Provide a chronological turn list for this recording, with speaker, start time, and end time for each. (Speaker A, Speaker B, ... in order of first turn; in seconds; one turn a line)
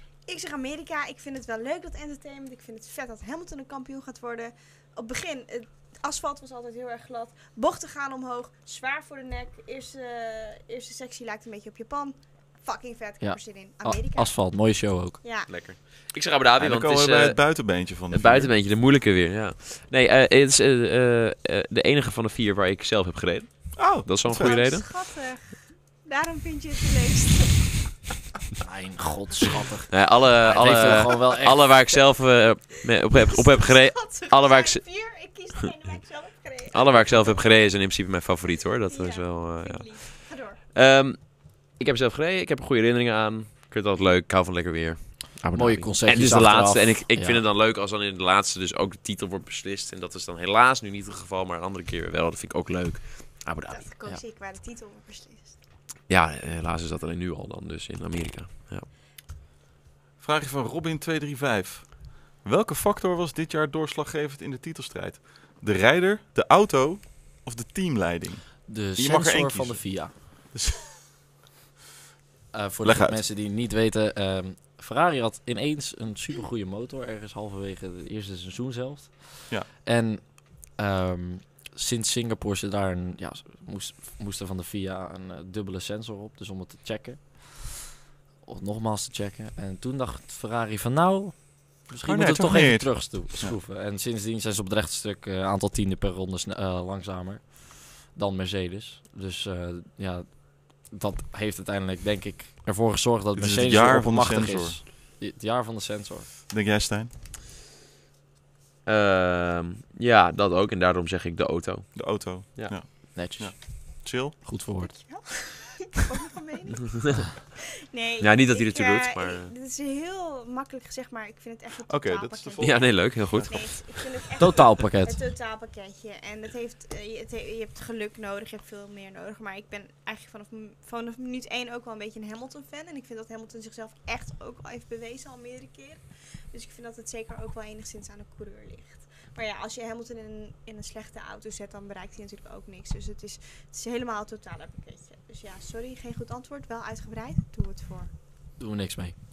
Speaker A: 0.3-14.4
Speaker B: 13.2-15.2
Speaker A: 15.2-15.5
Speaker C: 15.5-24.9
Speaker D: 16.6-18.5
Speaker D: 23.8-24.6
Speaker A: 24.3-27.9
Speaker B: 28.6-31.7
Speaker C: 29.9-34.9
Speaker A: 33.2-37.4
Speaker C: 36.7-53.9
Speaker A: 38.9-40.6
Speaker B: 45.5-47.4
Speaker A: 53.7-55.6
Speaker C: 56.1-58.9
Speaker D: 60.2-70.9
Speaker B: 68.7-70.1
Speaker B: 72.5-87.8
Speaker D: 72.8-73.3
Speaker B: 88.4-106.3
Speaker D: 92.0-93.6
Speaker D: 103.3-104.8
Speaker D: 106.5-107.1
Speaker C: 108.8-112.8
Speaker D: 111.9-114.4
Speaker B: 113.0-114.9
Speaker A: 114.8-148.1
Speaker C: 118.2-119.5
Speaker D: 121.9-123.6
Speaker C: 122.6-124.0
Speaker B: 124.4-125.2
Speaker B: 148.6-149.2